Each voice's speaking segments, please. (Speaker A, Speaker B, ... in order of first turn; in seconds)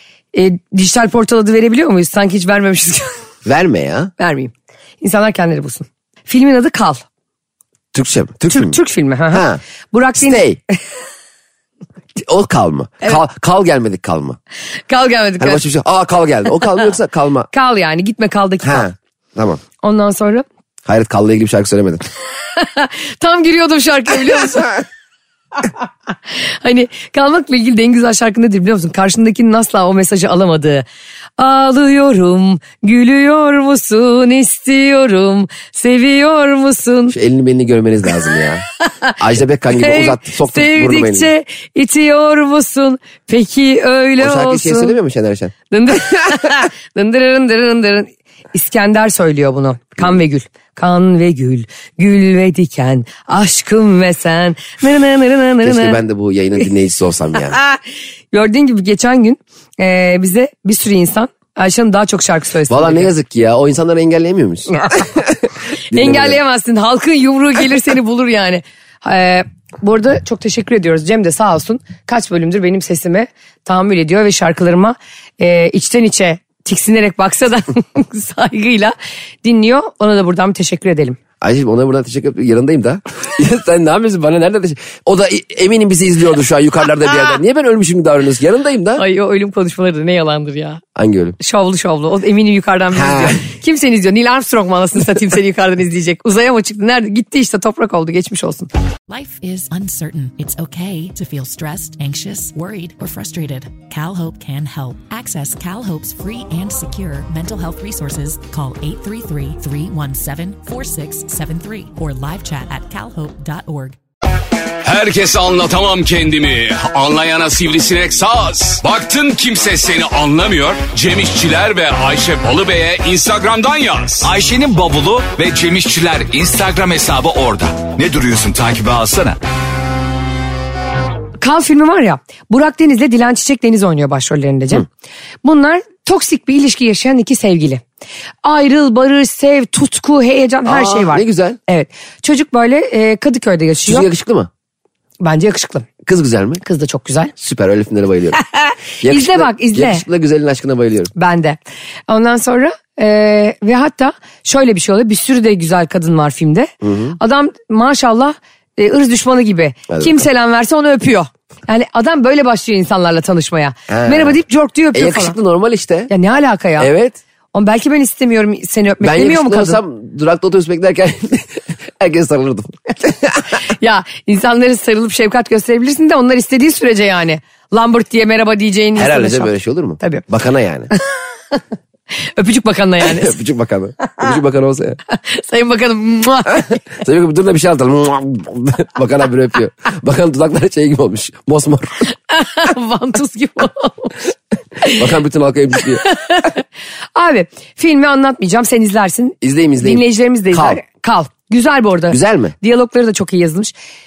Speaker A: 0.3-3.2, 4.2-7.0, 8.5-10.4, 14.9-15.6, 17.5-18.9, 19.8-20.4, 22.6-24.8, 26.3-30.9, 31.4-37.2, 39.8-45.0, 45.7-56.0, 58.3-63.1, 65.9-81.2, 89.0-90.8, 91.4-98.7, 131.4-134.9, 135.4-137.8, 138.4-144.1, 145.2-145.9, 146.6-147.3, 148.4-150.1, 151.2-165.4, 166.1-166.9, 167.5-169.8, 173.7-180.2, 182.4-183.4, 185.1-186.8, 192.3-194.2, 196.0-196.6, 197.2-203.7
Speaker B: 3.5-4.1, 7.9-8.8, 9.3-9.6, 10.2-10.6, 12.2-14.4, 15.4-17.5, 18.6-19.6, 20.9-22.0, 37.1-38.7, 39.2-41.3, 44.2-46.3, 55.6-57.6, 62.7-66.4, 81.4-89.0, 91.0-91.4, 92.9-93.4, 140.7-141.6, 143.9-144.5, 146.1-146.6, 147.4-148.4, 149.0-151.1, 156.8-157.2, 159.9-160.2, 163.9-164.4, 164.9-166.1, 166.8-167.2, 169.0-173.4, 179.0-180.9, 183.0-185.0, 186.9-192.1, 194.9-196.0, 199.4-200.8, 202.1-202.6
Speaker C: 99.1-114.0
Speaker D: 114.8-124.3
Speaker E: 124.2-129.4